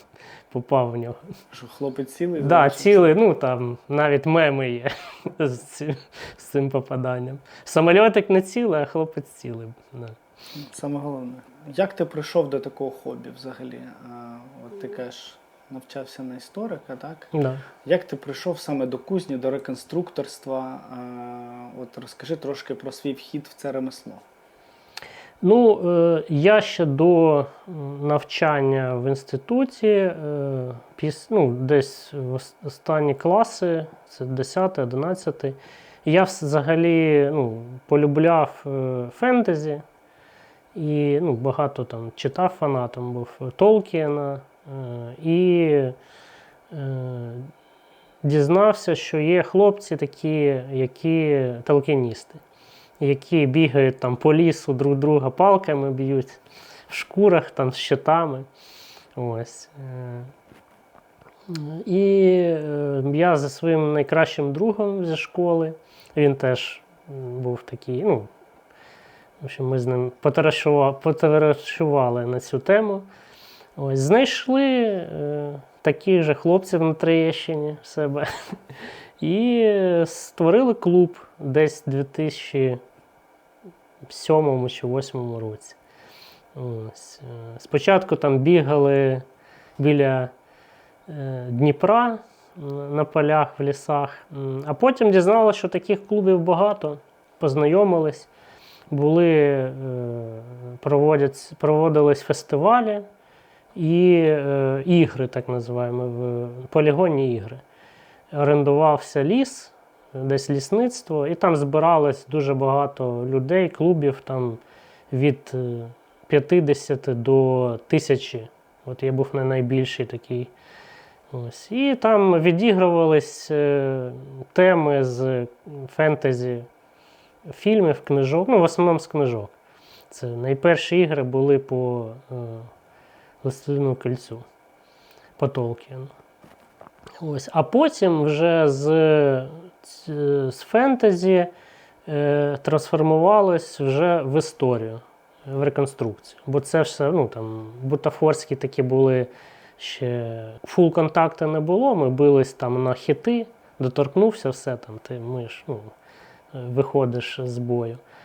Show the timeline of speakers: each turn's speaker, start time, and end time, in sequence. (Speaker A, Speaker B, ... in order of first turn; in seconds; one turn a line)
Speaker A: 0.5-1.2
Speaker B: 1.5-3.1
Speaker A: 2.4-10.2
Speaker B: 10.6-17.3
Speaker A: 17.3-17.6
Speaker B: 17.8-24.2
Speaker A: 25.4-39.8
Speaker A: 40.7-46.0
Speaker A: 46.7-47.5
Speaker A: 48.2-52.4
Speaker A: 53.0-58.5
Speaker A: 59.1-60.3
Speaker A: 61.5-68.3
Speaker A: 69.4-73.1
Speaker A: 73.8-82.8
Speaker A: 84.1-85.8
Speaker A: 86.5-89.2
Speaker A: 89.8-90.3
Speaker A: 91.1-98.3
Speaker A: 98.9-103.1
Speaker A: 103.7-107.6
Speaker A: 108.3-120.5
Speaker A: 121.3-126.7
Speaker A: 127.5-129.5
Speaker A: 130.1-132.7
Speaker A: 133.4-134.4
Speaker A: 135.4-136.1
Speaker A: 137.2-141.5
Speaker A: 142.1-155.9
Speaker A: 156.5-158.0